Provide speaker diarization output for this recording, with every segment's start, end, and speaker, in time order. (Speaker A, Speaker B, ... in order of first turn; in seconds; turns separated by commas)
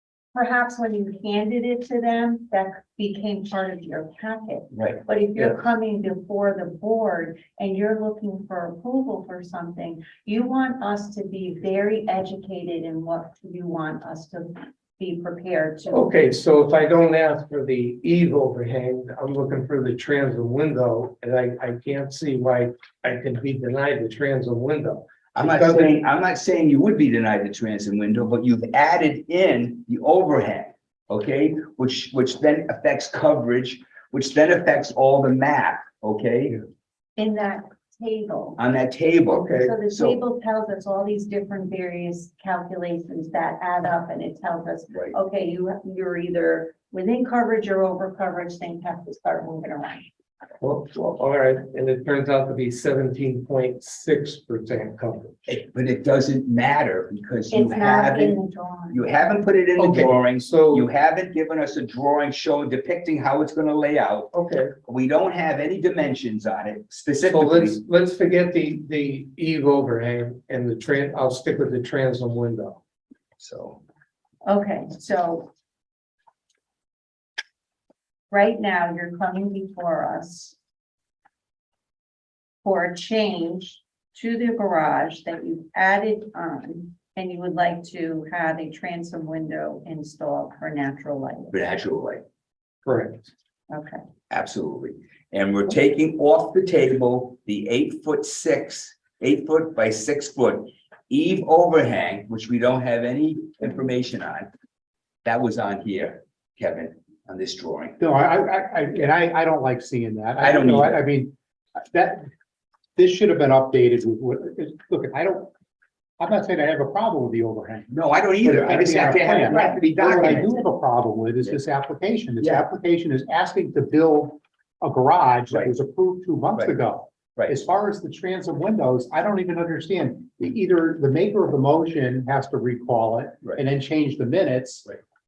Speaker A: 0.3-16.1, Speaker B: 4.7-5.0, Speaker C: 15.9-26.0, Speaker B: 25.4-36.6, Speaker A: 37.2-38.6, Speaker B: 38.6-40.2, Speaker C: 39.3-39.7, Speaker A: 39.5-50.1, Speaker C: 50.6-55.5, Speaker B: 55.5-64.3, Speaker A: 57.5-59.1, Speaker C: 59.8-60.9, Speaker C: 64.3-64.7, Speaker B: 64.9-67.8, Speaker C: 67.3-72.8, Speaker B: 73.4-73.8, Speaker A: 74.5-75.5, Speaker A: 78.3-80.6, Speaker A: 82.6-91.5, Speaker B: 91.5-92.2, Speaker C: 92.8-93.3, Speaker A: 93.7-94.0, Speaker B: 94.3-104.5, Speaker B: 105.2-108.0, Speaker D: 108.0-111.3, Speaker B: 110.4-111.0, Speaker D: 111.9-112.3, Speaker D: 113.0-115.5, Speaker D: 116.2-117.9, Speaker B: 117.9-120.6, Speaker D: 118.4-134.9, Speaker A: 119.5-119.8, Speaker B: 122.4-122.7